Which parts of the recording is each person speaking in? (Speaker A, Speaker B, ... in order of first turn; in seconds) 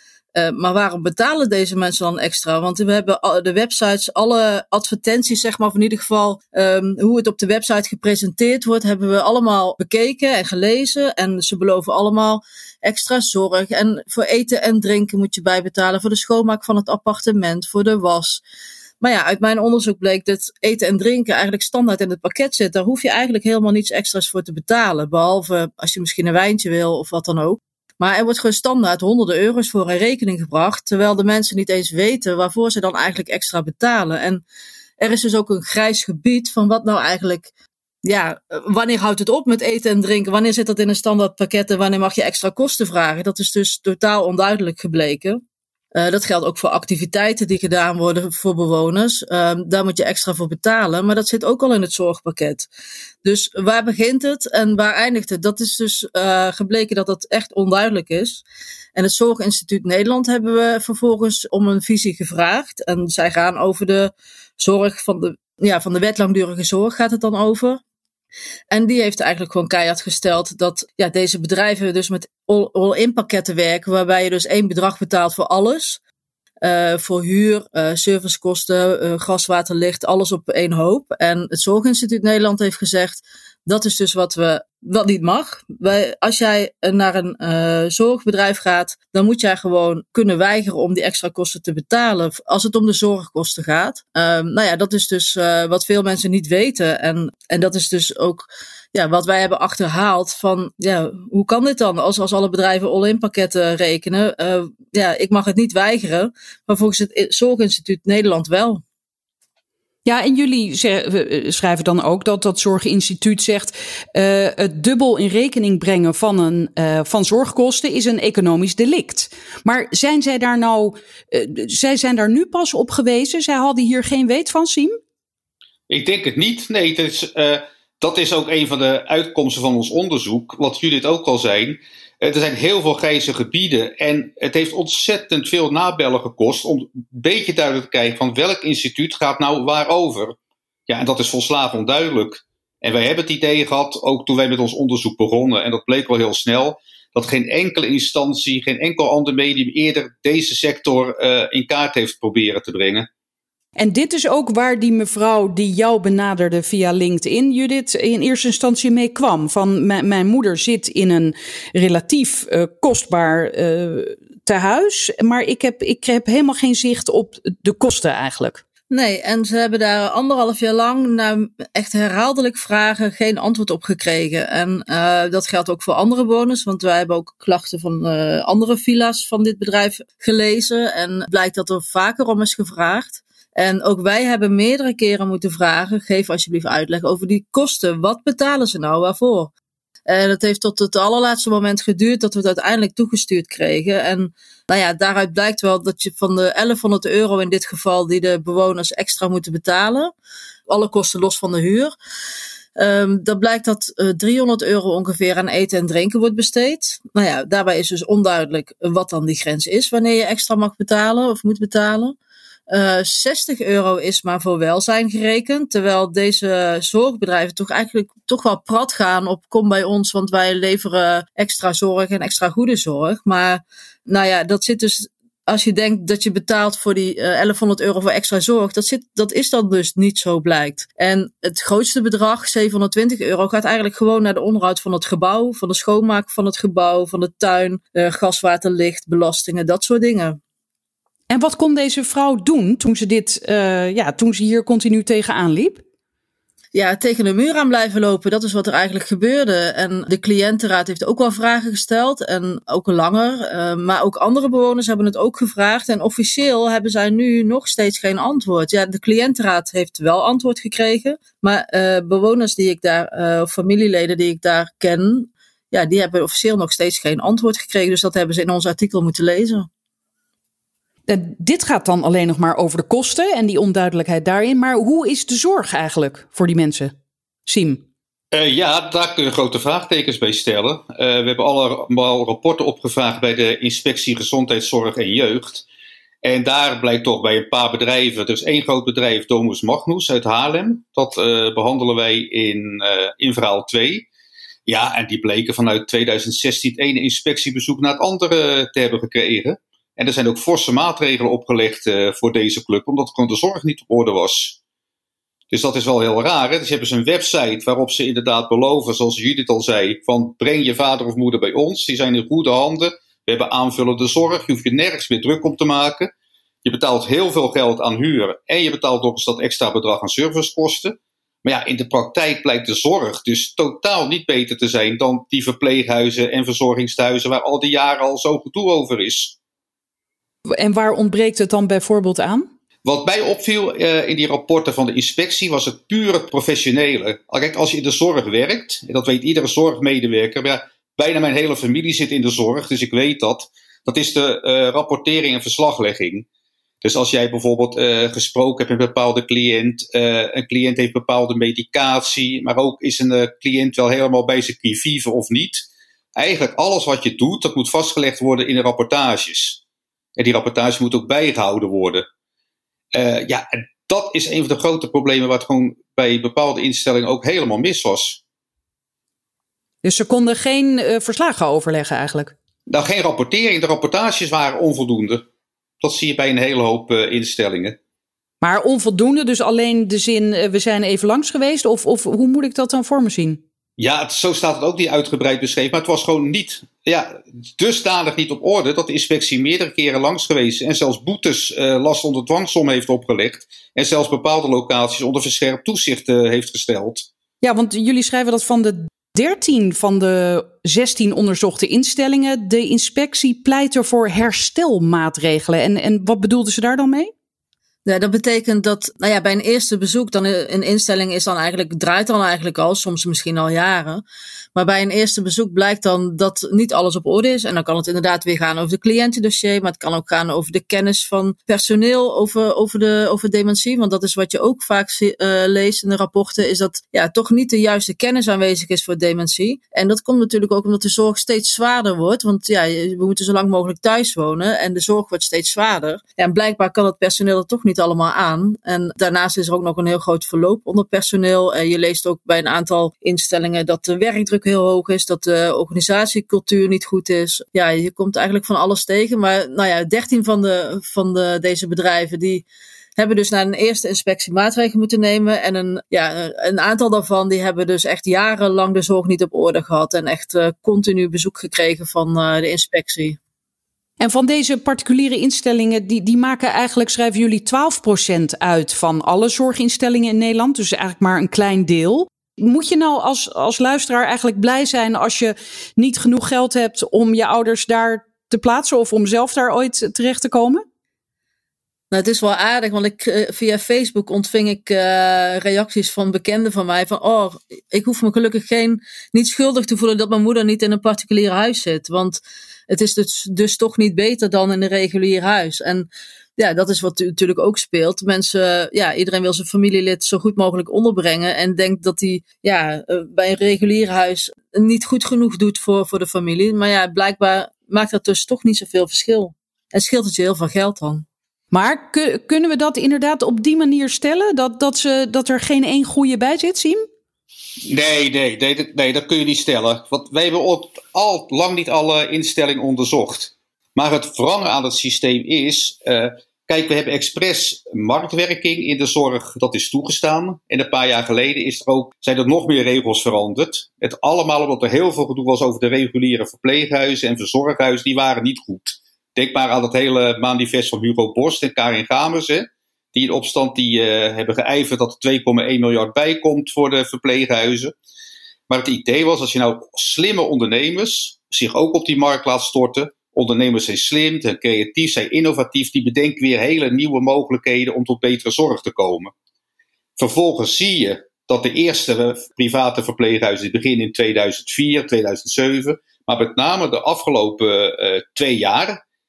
Speaker A: 0.3-18.4, 19.0-34.4, 35.0-37.5, 38.0-45.4, 45.9-52.7, 53.2-58.4, 58.9-67.8, 68.7-76.0, 76.6-108.8, 168.9-189.5, 190.1-200.1, 200.7-201.9, 202.8-212.2, 212.7-240.4, 246.7-269.7, 407.8-414.0, 414.5-452.4, 452.9-463.2, 481.9-511.0
Speaker B: 110.0-125.0, 153.8-168.6, 241.3-245.8, 271.1-276.9, 277.4-277.8, 330.4-332.5, 369.8-372.3, 378.4-383.4, 397.4-407.1, 464.0-480.6, 511.5-516.8
Speaker C: 125.9-140.3, 140.9-153.1, 278.3-285.6, 286.2-294.1, 294.6-304.6, 305.5-316.1, 316.6-329.4, 332.8-346.2, 346.8-359.6, 360.1-362.1, 362.9-368.2, 372.7-375.2, 375.8-377.8, 383.8-397.1, 517.6-547.7, 548.5-559.1, 560.0-568.8